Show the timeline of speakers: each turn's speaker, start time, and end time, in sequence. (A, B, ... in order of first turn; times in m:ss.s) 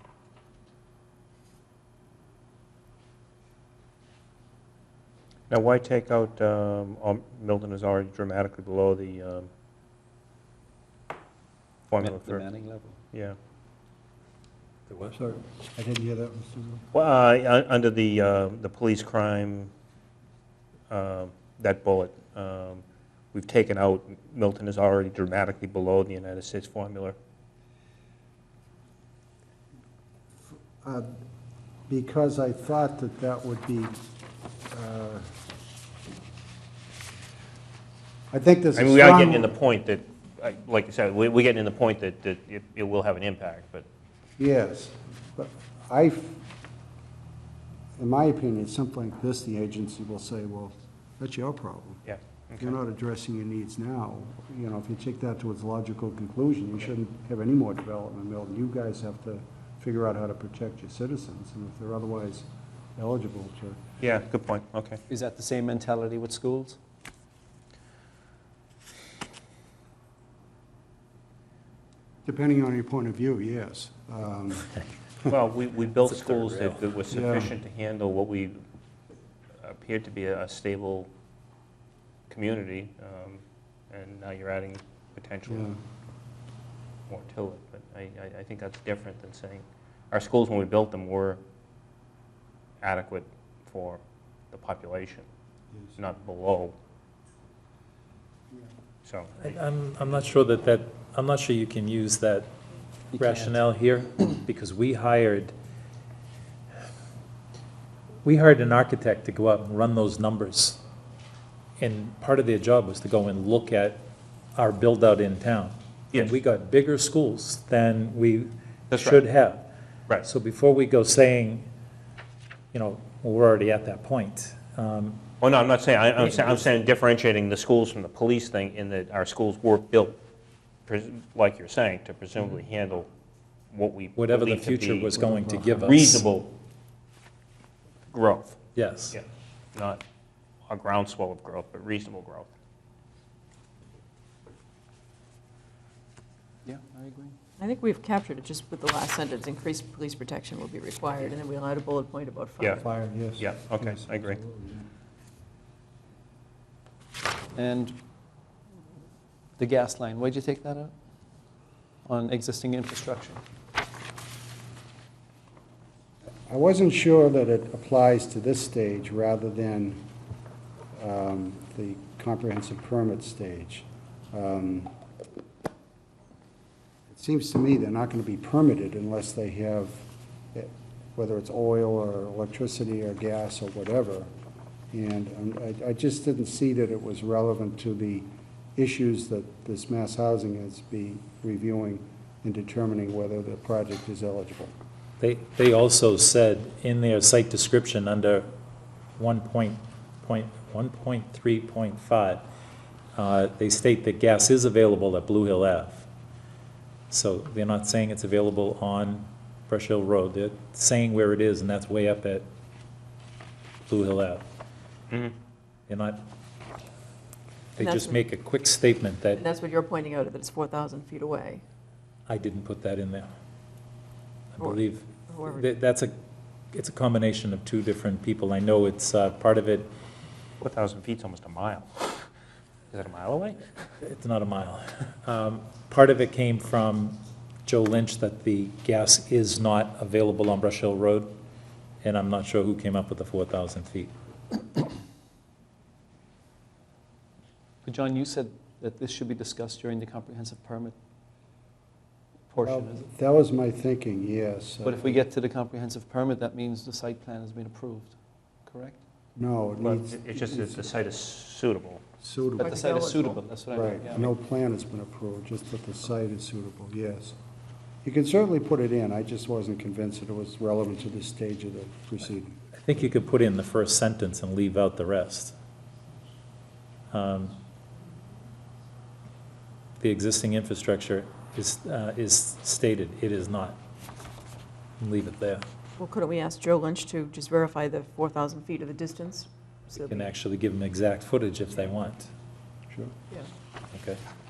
0:05.5-0:09.5 A
0:11.9-0:12.4 A
0:12.0-0:13.0 B
0:14.9-0:15.2 C
0:15.1-0:16.8 D
0:16.9-0:19.7 A
0:20.9-0:27.1 A
0:30.8-0:31.1 D
0:31.9-0:34.0 D
0:34.7-0:35.3 D
0:38.3-0:39.5 D
0:38.8-0:43.8 A
0:44.4-0:46.4 D
0:48.0-0:52.0 D
0:52.0-0:52.7 A
0:52.6-1:03.8 D
1:04.0-1:05.0 A
1:05.1-1:06.8 B
1:12.2-1:14.7 D
1:15.3-1:18.6 A
1:16.0-1:16.8 C
1:17.1-1:17.5 D
1:19.6-1:21.1 A
1:22.3-1:25.7 A
1:25.4-1:25.8 D
1:27.1-1:31.4 A
1:32.8-1:35.2 A
1:35.7-1:36.0 D
1:36.0-1:36.7 A
1:39.0-1:39.4 A
1:39.4-1:42.5 C
1:43.1-1:43.5 B
1:43.1-1:45.5 C
1:48.2-1:50.8 C
1:51.8-1:54.0 C
1:54.6-1:59.6 C
1:58.9-1:59.2 A
2:00.2-2:01.7 C
2:02.7-2:05.2 C
2:05.4-2:10.2 A
2:10.9-2:13.1 A
2:13.7-2:15.2 A
2:14.2-2:16.2 C
2:15.2-2:15.9 D
2:15.8-2:16.5 A
2:18.1-2:18.6 A
2:18.7-2:19.2 C
2:19.1-2:20.0 A
2:20.7-2:22.5 A
2:26.6-2:27.3 B
2:27.6-2:32.8 E
2:32.7-2:34.9 D
2:33.4-2:34.4 A
2:37.5-2:38.0 B
2:39.6-2:40.9 B
2:42.0-2:43.4 B
2:46.5-2:50.0 D
2:50.9-2:54.9 D
2:57.1-3:04.3 D
3:04.9-3:14.7 D
3:15.2-3:18.5 C
3:19.2-3:22.4 C
3:23.2-3:26.1 C
3:27.1-3:32.5 C
3:33.9-3:34.4 C
3:35.9-3:36.2 C
3:37.8-3:39.4 C
3:37.8-3:38.2 E
3:39.3-3:41.6 E
3:42.3-3:43.3 C
3:44.6-3:46.1 C
3:44.6-3:45.7 E
3:46.7-3:49.9 C
3:50.6-3:52.2 A
3:52.9-3:53.6 A
3:54.0-4:01.3 C
4:02.0-4:04.1 C
4:07.8-4:11.0 B
4:12.5-4:13.0 B
4:12.6-4:15.2 D
4:14.8-4:18.1 B
4:18.7-4:19.0 B
4:19.4-4:20.9 D
4:19.8-4:22.0 A
4:22.2-4:22.8 D
4:22.6-4:24.3 B
4:22.6-4:23.4 E
4:23.7-4:27.4 D
4:28.0-4:32.6 D
4:32.8-4:35.5 C
4:37.1-4:37.6 C
4:40.0-4:43.8 C
4:45.0-4:45.6 C
4:46.0-4:50.2 E
4:49.9-4:52.3 C
4:53.9-4:54.2 C